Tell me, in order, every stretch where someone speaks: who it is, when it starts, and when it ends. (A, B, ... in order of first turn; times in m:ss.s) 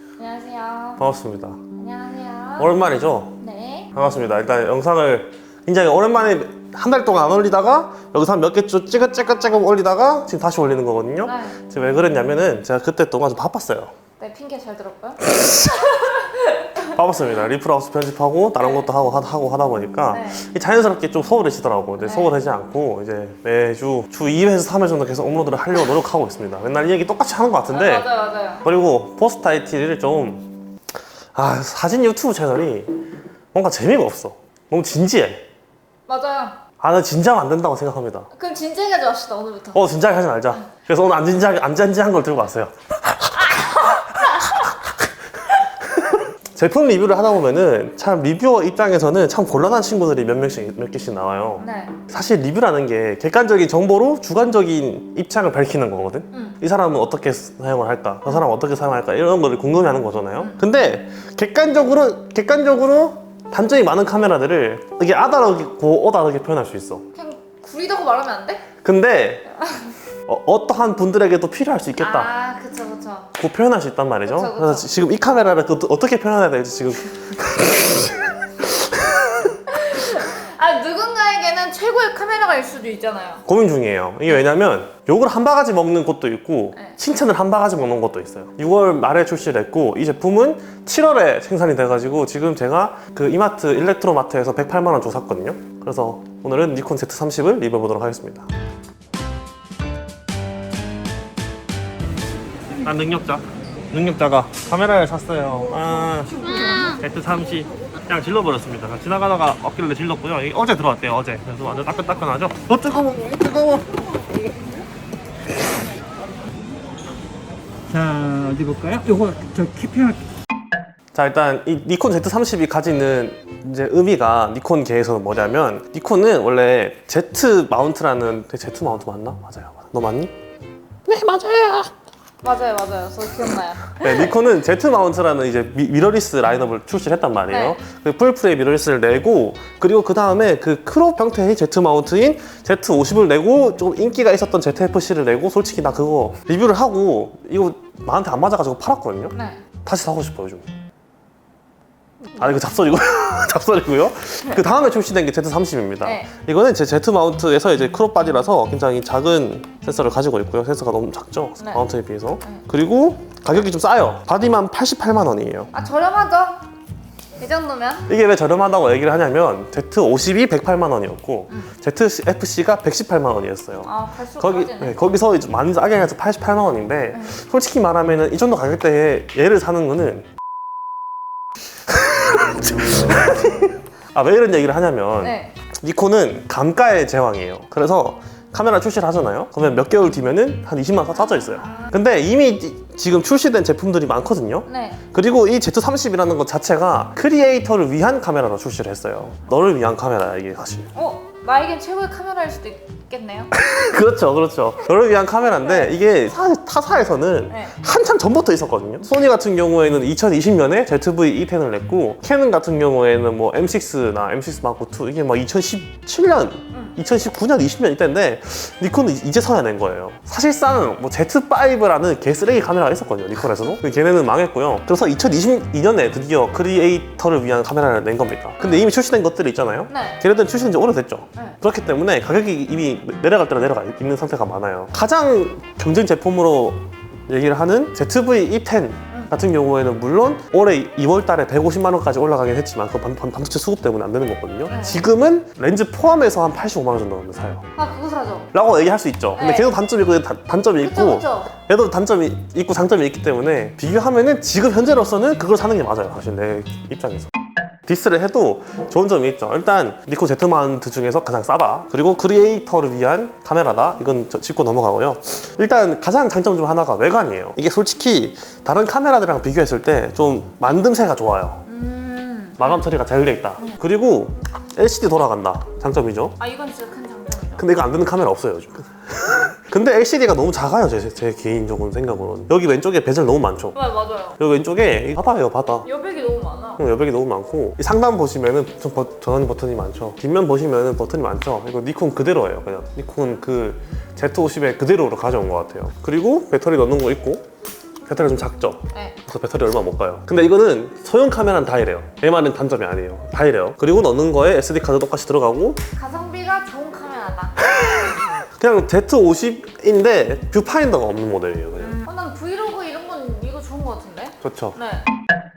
0:00.2-0:01.0 A
0:01.0-0:01.6 B
0:01.7-0:02.7 A
0:02.6-0:03.4 B
0:03.4-0:03.9 A
0:03.9-0:13.9 B
0:11.2-0:11.6 A
0:14.2-0:16.9 A
0:15.4-0:15.7 B
0:16.9-0:28.1 B
0:18.6-0:18.8 A
0:20.1-0:20.4 A
0:22.0-0:22.3 A
0:27.7-0:28.6 A
0:28.6-0:30.5 B
0:31.3-0:32.9 B
0:33.5-0:35.4 B
0:36.1-0:36.6 A
0:36.8-0:38.3 B
0:38.3-0:39.8 A
0:39.7-0:45.1 B
0:43.3-0:44.7 A
0:45.8-1:07.0 B
0:51.6-0:52.0 A
0:56.3-0:56.6 A
1:07.2-1:08.6 A
1:08.8-1:09.4 B
1:10.3-1:12.3 B
1:12.0-1:13.3 A
1:13.4-1:19.6 B
1:14.2-1:14.9 A
1:19.7-1:23.4 A
1:23.4-1:38.5 B
1:42.8-1:53.9 B
1:46.4-1:46.9 A
1:57.9-2:00.2 C
2:01.1-2:10.3 B
2:11.1-2:11.9 B
2:12.4-2:14.3 A
2:14.0-2:30.6 B
2:17.5-2:17.8 A
2:29.3-2:29.6 A
2:32.2-2:32.6 A
2:32.4-2:45.7 B
2:36.0-2:36.3 A
2:41.6-2:41.8 A
2:45.7-2:46.6 A
2:47.4-2:48.1 A
2:48.1-3:00.3 B
2:53.8-2:55.0 A
3:01.9-3:20.9 B
3:05.2-3:05.5 A
3:11.1-3:12.0 A
3:14.7-3:15.0 A
3:20.9-3:23.5 A
3:23.5-4:07.6 B
3:25.6-3:26.0 A
3:27.5-3:27.7 A
3:48.6-3:48.9 A
3:49.9-3:50.2 A
4:04.7-4:05.1 A
4:07.7-4:08.5 A
4:08.5-4:17.3 B
4:09.4-4:09.7 A
4:10.8-4:11.5 A
4:17.8-4:31.6 B
4:31.7-4:32.7 A
4:32.6-4:36.4 B
4:36.4-4:37.7 A
4:37.6-4:43.8 B
4:43.7-4:44.4 A
4:44.4-4:45.9 B
4:45.8-4:46.8 A
4:46.8-4:57.4 B
4:58.0-5:05.8 B
5:05.9-5:07.6 A
5:07.6-5:12.0 B
5:11.8-5:15.1 A
5:14.4-5:14.8 B